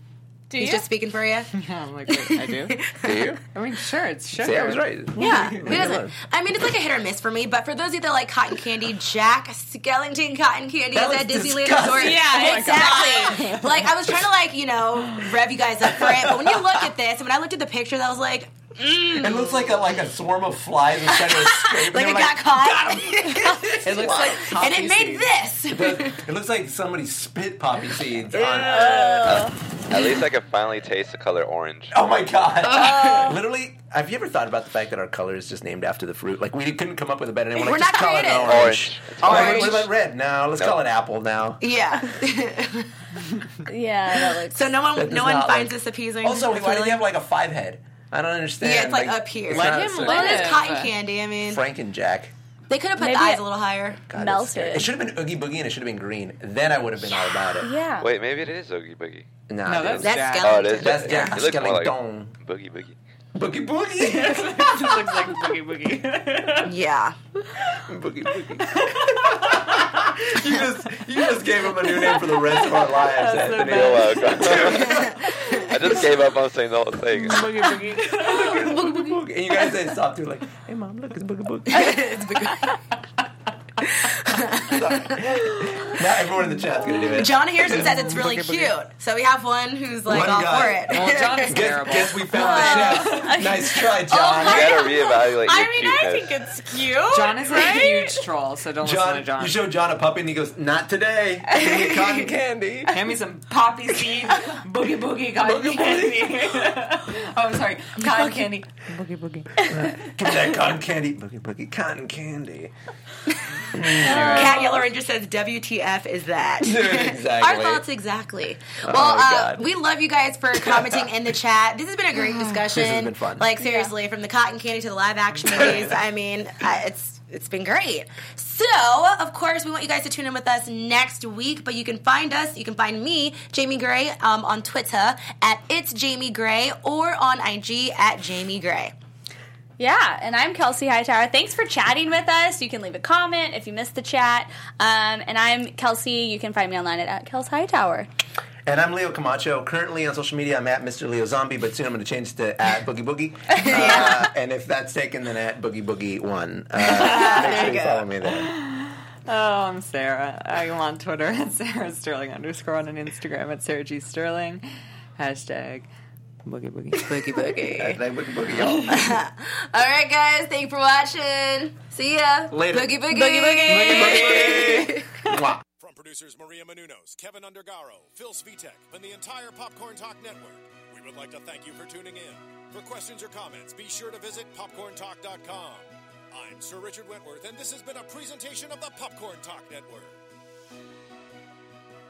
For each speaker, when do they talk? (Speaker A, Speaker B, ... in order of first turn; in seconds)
Speaker A: 0.5-0.9, 11.9-13.6, 28.4-29.5, 32.7-33.4, 43.7-44.7, 53.0-53.5, 54.1-54.9, 57.6-58.2, 92.3-98.2, 113.9-114.8, 123.6-123.9, 139.8-148.1, 173.1-174.3
Speaker B: 0.6-1.5, 2.1-3.4, 5.2-19.8, 21.1-26.2, 32.6-33.3, 37.5-39.8, 41.6-42.9, 44.2-47.0, 48.6-51.6, 52.7-54.0, 60.0-61.4, 66.6-67.2, 81.7-82.8, 83.9-85.4, 86.9-91.6, 114.2-138.9, 153.7-154.1, 156.8-158.1, 167.0-168.0, 168.8-175.1
Speaker C: 1.5-2.9, 3.5-6.0, 12.3-13.6, 39.3-39.8, 49.5-50.9, 59.6-60.7, 64.0-66.7, 68.7-70.0, 71.8-74.7, 77.3-79.0, 90.9-93.5, 97.1-99.6, 102.9-109.8, 114.0-114.5, 125.5-125.9, 158.2-164.6, 165.2-165.9, 166.4-167.5, 168.7-168.9, 173.7-174.7
Speaker D: 3.0-3.4, 4.4-6.2, 10.9-12.3, 15.0-16.9, 19.1-29.5, 31.9-42.1, 45.0-50.6, 51.4-52.3, 54.1-57.7, 59.5-62.3, 63.4-65.2, 67.6-75.2, 77.2-82.2, 84.5-88.7, 90.1-94.8, 98.8-103.2, 105.4-106.8, 109.6-112.7, 113.7-114.8, 116.6-117.8, 118.8-119.7, 120.5-121.2, 122.2-123.5, 125.5-126.0, 148.7-158.5, 167.7-169.2, 172.5-173.0, 173.7-175.6
Speaker E: 29.2-31.9, 38.4-39.8, 58.0-59.3, 60.4-63.0, 73.6-77.5, 94.3-96.4
Speaker F: 175.8-190.2